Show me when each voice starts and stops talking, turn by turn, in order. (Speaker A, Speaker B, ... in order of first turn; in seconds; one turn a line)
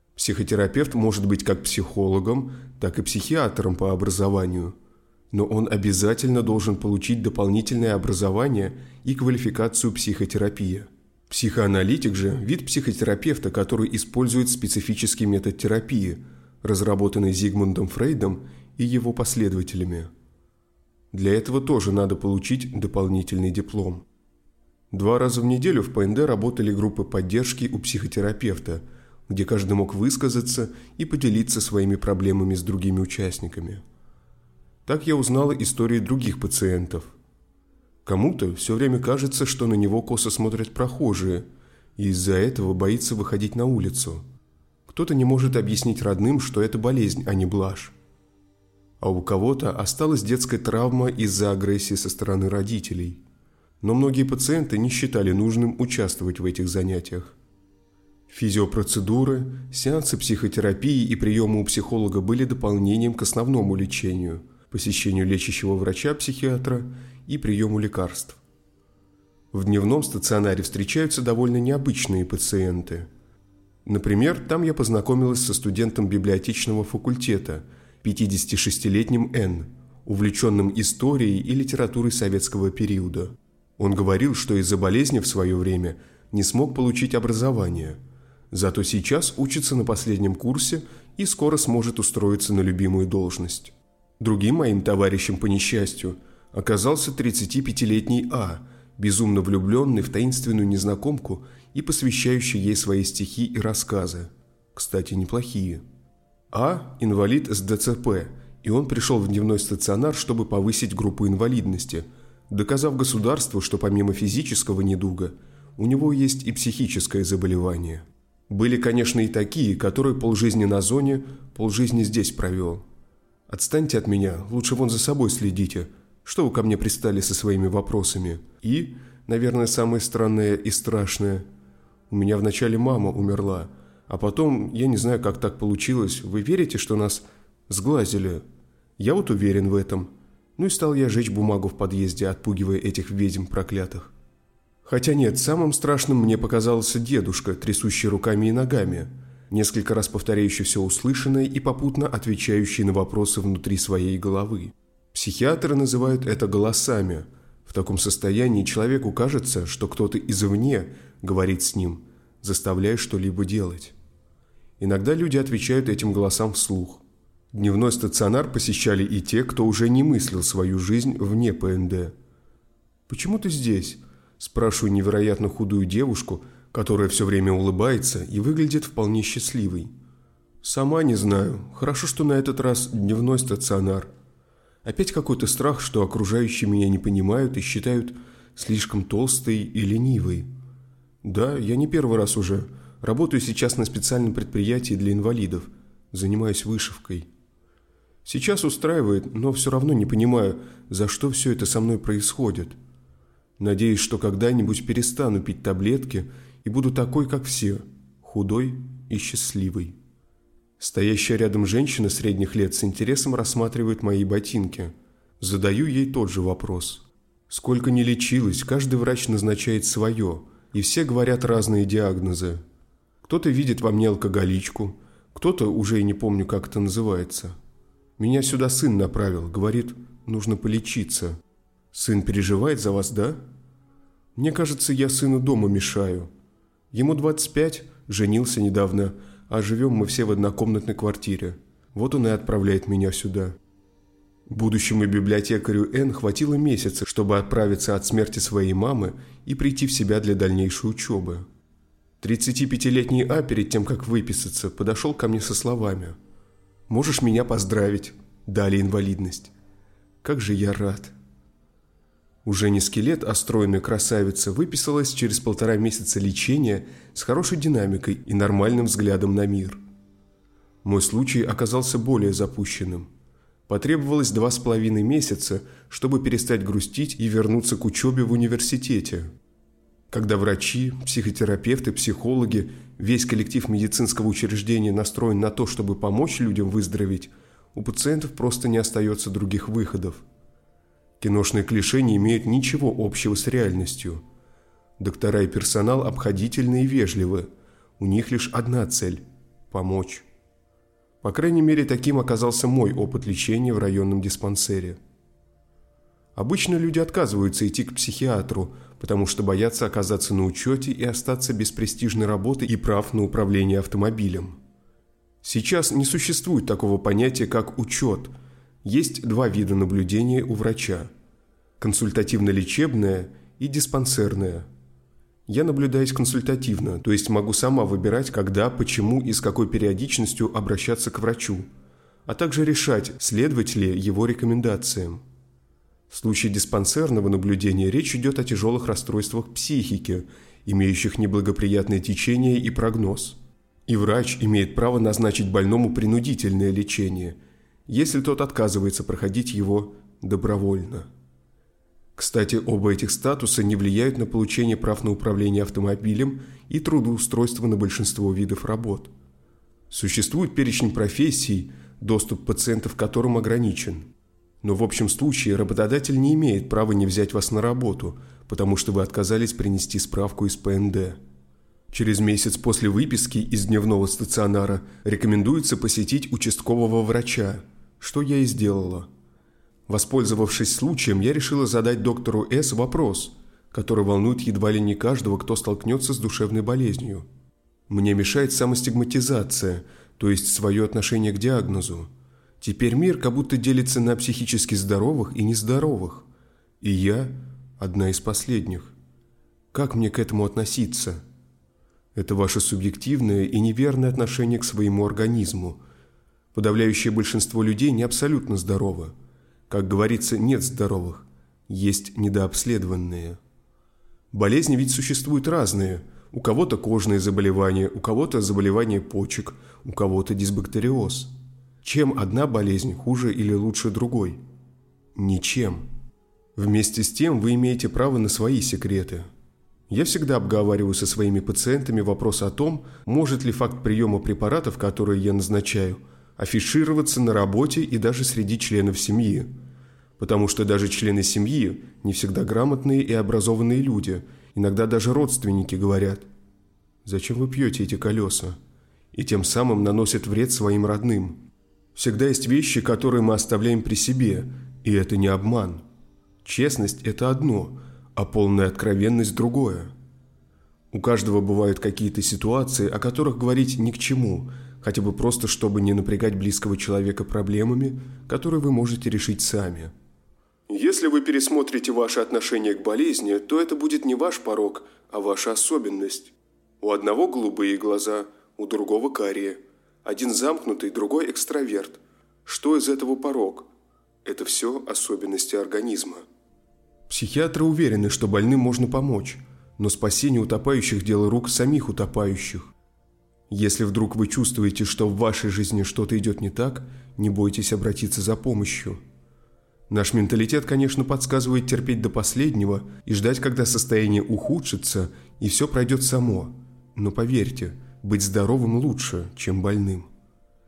Speaker A: 0.1-4.7
Speaker A: 5.3-20.1
Speaker A: 21.1-24.1
Speaker A: 24.9-33.8
Speaker A: 34.9-37.1
Speaker A: 38.0-44.2
Speaker A: 44.9-47.9
Speaker A: 49.0-53.2
Speaker A: 53.8-57.4
Speaker A: 58.3-68.4
Speaker A: 69.5-73.1
Speaker A: 73.8-88.0
Speaker A: 88.5-105.8
Speaker A: 106.5-122.8
Speaker A: 123.5-131.5
Speaker A: 132.1-138.4
Speaker A: 139.0-144.1
Speaker A: 144.8-163.9
Speaker A: 164.8-167.0
Speaker A: 167.5-172.1
Speaker A: 173.1-179.9
Speaker A: 180.6-184.1
Speaker A: 184.8-190.5
Speaker A: 191.2-197.3
Speaker A: 198.2-202.8
Speaker A: 203.6-209.9
Speaker A: 210.8-222.6
Speaker A: 223.2-227.5
Speaker A: 228.2-231.4
Speaker A: 231.9-233.4
Speaker A: 234.3-236.3
Speaker A: 236.9-243.6
Speaker A: 244.5-251.4
Speaker A: 252.2-256.2
Speaker A: 256.9-259.5
Speaker A: 260.2-261.1
Speaker A: 262.4-269.8
Speaker A: 270.8-273.1
Speaker A: 273.7-279.3
Speaker A: 280.1-290.2
Speaker A: 291.2-294.2
Speaker A: 295.0-300.2
Speaker A: 301.2-305.0
Speaker A: 306.3-314.6
Speaker A: 315.4-318.3
Speaker A: 318.8-321.1
Speaker A: 321.8-324.7
Speaker A: 325.5-331.7
Speaker A: 332.2-335.2
Speaker A: 336.1-351.1
Speaker A: 352.1-359.1
Speaker A: 359.9-364.1
Speaker A: 364.6-371.2
Speaker A: 371.9-379.1
Speaker A: 379.9-387.3
Speaker A: 387.9-392.1
Speaker A: 392.6-396.2
Speaker A: 396.8-398.9
Speaker A: 399.7-401.2
Speaker A: 402.1-405.8
Speaker A: 406.5-409.1
Speaker A: 409.7-413.4
Speaker A: 414.3-424.4
Speaker A: 425.1-425.9
Speaker A: 426.6-429.3
Speaker A: 429.9-439.5
Speaker A: 440.2-446.3
Speaker A: 447.0-448.6
Speaker A: 449.1-455.8
Speaker A: 456.4-459.9
Speaker A: 460.9-469.9
Speaker A: 470.7-483.7
Speaker A: 484.2-486.2
Speaker A: 487.1-492.7
Speaker A: 493.5-499.0
Speaker A: 499.9-510.1